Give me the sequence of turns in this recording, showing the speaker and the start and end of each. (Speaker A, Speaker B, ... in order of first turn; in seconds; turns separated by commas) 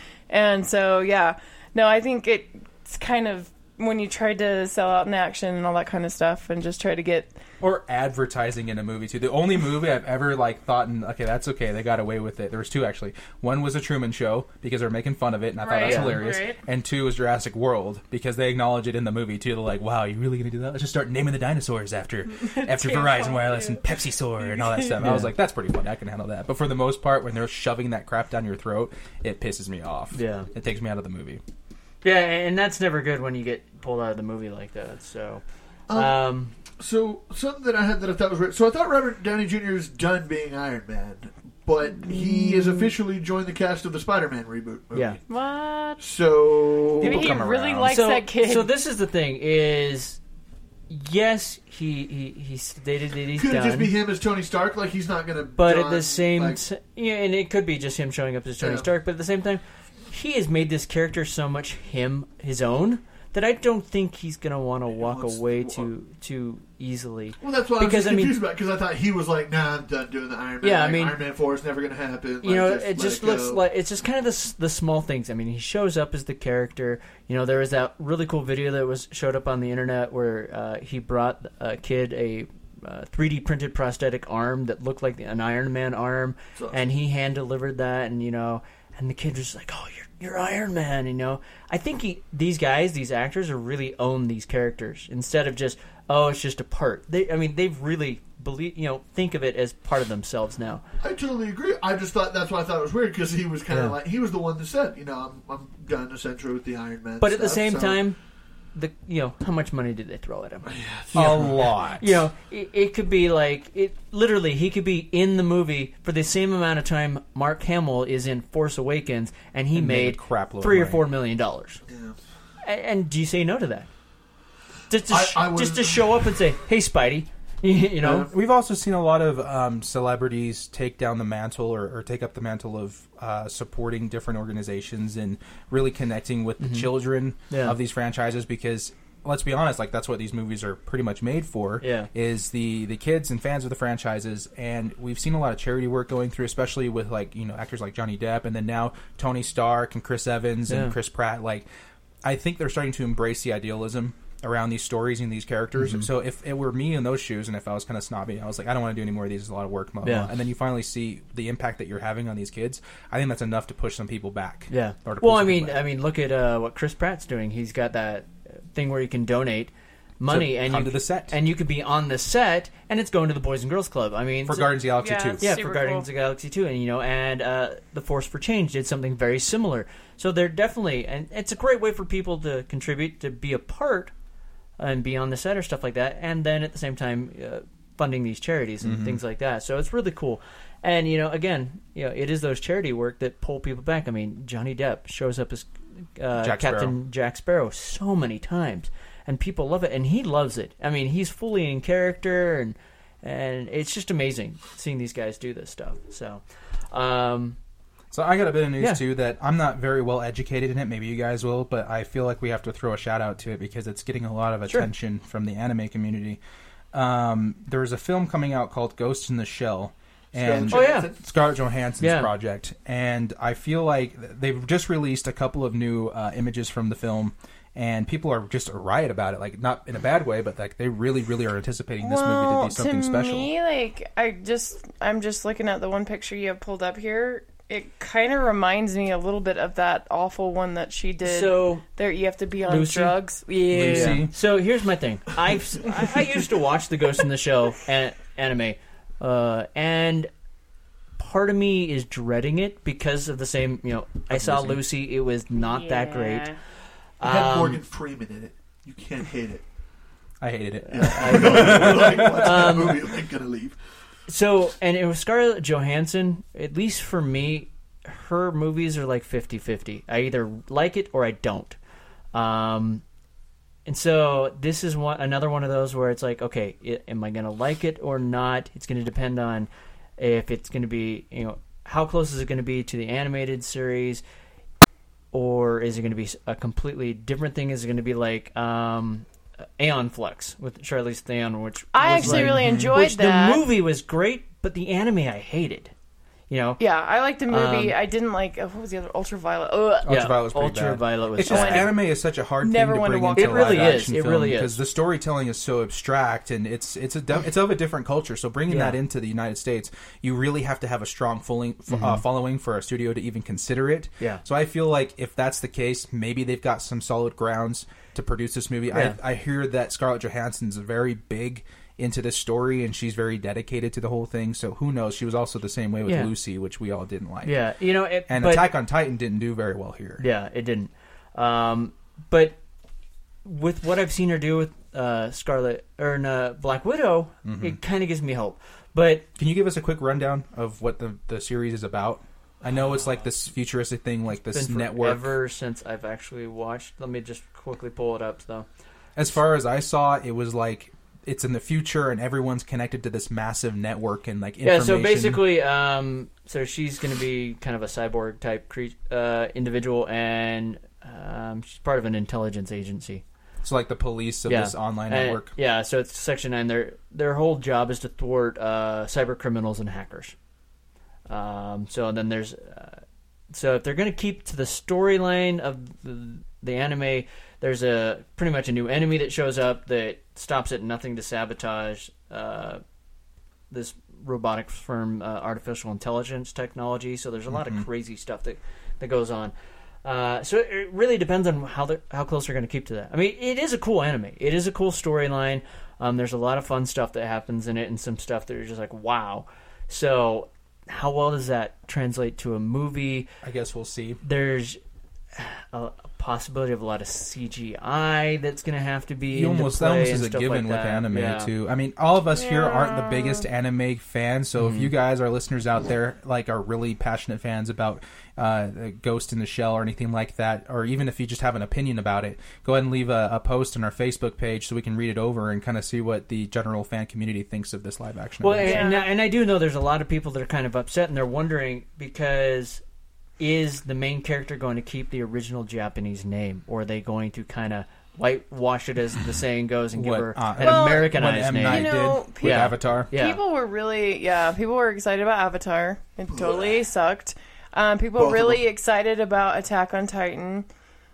Speaker A: 0.3-7.3, Speaker B: 7.6-31.4, Speaker A: 15.6-16.6, Speaker C: 15.8-16.2, Speaker A: 22.4-24.9, Speaker C: 25.0-25.3, Speaker C: 30.1-30.5, Speaker C: 32.0-36.5, Speaker D: 35.9-45.2, Speaker C: 42.1-42.4, Speaker C: 44.9-45.2, Speaker A: 45.3-46.0, Speaker D: 46.0-47.3, Speaker B: 47.0-47.9, Speaker A: 47.0-48.7, Speaker C: 47.8-50.2, Speaker C: 50.9-53.9, Speaker D: 53.3-56.6, Speaker C: 55.5-68.4, Speaker D: 58.6-58.9, Speaker D: 64.9-65.9, Speaker D: 67.4-73.6, Speaker C: 70.6-71.2, Speaker C: 72.4-100.8, Speaker D: 86.5-86.9, Speaker D: 101.0-108.0, Speaker C: 103.7-104.0, Speaker C: 107.2-108.2, Speaker C: 108.7-110.7, Speaker D: 110.6-111.8, Speaker B: 111.1-112.2, Speaker C: 112.0-121.8, Speaker B: 119.7-121.0, Speaker D: 121.9-122.2, Speaker C: 122.6-123.9, Speaker C: 124.9-128.3, Speaker D: 125.0-126.4, Speaker D: 128.0-128.3, Speaker B: 128.3-151.7, Speaker C: 136.6-136.9, Speaker C: 137.5-137.8, Speaker C: 141.8-142.1, Speaker C: 150.7-150.9, Speaker B: 152.2-165.8, Speaker C: 155.8-156.1, Speaker C: 160.0-160.3, Speaker C: 164.7-174.8, Speaker B: 170.3-171.3, Speaker B: 174.4-175.4, Speaker A: 175.0-176.1, Speaker C: 175.4-184.1, Speaker C: 184.8-207.6, Speaker B: 188.8-189.2, Speaker B: 196.3-196.9, Speaker B: 208.1-216.4, Speaker B: 216.9-233.5, Speaker D: 220.3-221.2, Speaker C: 220.7-221.1, Speaker C: 222.0-222.3, Speaker A: 232.0-244.2, Speaker C: 241.2-241.8, Speaker C: 242.7-250.3, Speaker B: 243.7-244.3, Speaker C: 251.2-256.5, Speaker B: 254.3-254.8, Speaker A: 255.5-256.6, Speaker C: 257.2-257.8, Speaker D: 257.2-259.6, Speaker B: 260.4-262.8, Speaker D: 260.9-263.8, Speaker C: 260.9-263.1, Speaker C: 264.3-271.8, Speaker C: 272.3-273.0, Speaker C: 273.9-284.2, Speaker C: 285.3-289.3, Speaker C: 289.8-295.9, Speaker A: 291.9-293.6, Speaker B: 292.2-292.9, Speaker C: 296.5-296.8, Speaker A: 296.8-300.1, Speaker C: 297.5-297.9, Speaker B: 300.0-327.6, Speaker C: 300.1-301.9, Speaker A: 301.4-302.1, Speaker A: 302.6-304.1, Speaker C: 303.3-304.8, Speaker C: 308.7-309.0, Speaker C: 311.9-312.2, Speaker C: 318.9-319.2, Speaker C: 326.1-326.3, Speaker C: 327.4-328.7, Speaker B: 328.3-330.2, Speaker C: 330.2-332.6, Speaker C: 333.4-339.2, Speaker B: 337.4-337.8, Speaker B: 339.4-345.3, Speaker C: 344.5-348.7, Speaker B: 349.1-355.4, Speaker C: 354.6-363.2, Speaker B: 363.6-365.5, Speaker C: 364.5-370.4, Speaker C: 371.3-382.8, Speaker C: 383.7-389.5, Speaker B: 387.5-387.8, Speaker C: 390.0-403.3, Speaker B: 403.4-404.2, Speaker C: 404.2-404.8, Speaker C: 405.3-411.5, Speaker B: 409.3-428.8, Speaker A: 412.3-413.4, Speaker C: 414.6-414.9, Speaker C: 428.4-432.8, Speaker A: 428.6-429.1, Speaker C: 433.4-443.4, Speaker B: 439.9-443.1, Speaker A: 440.6-450.7, Speaker D: 446.3-446.8, Speaker D: 448.2-448.6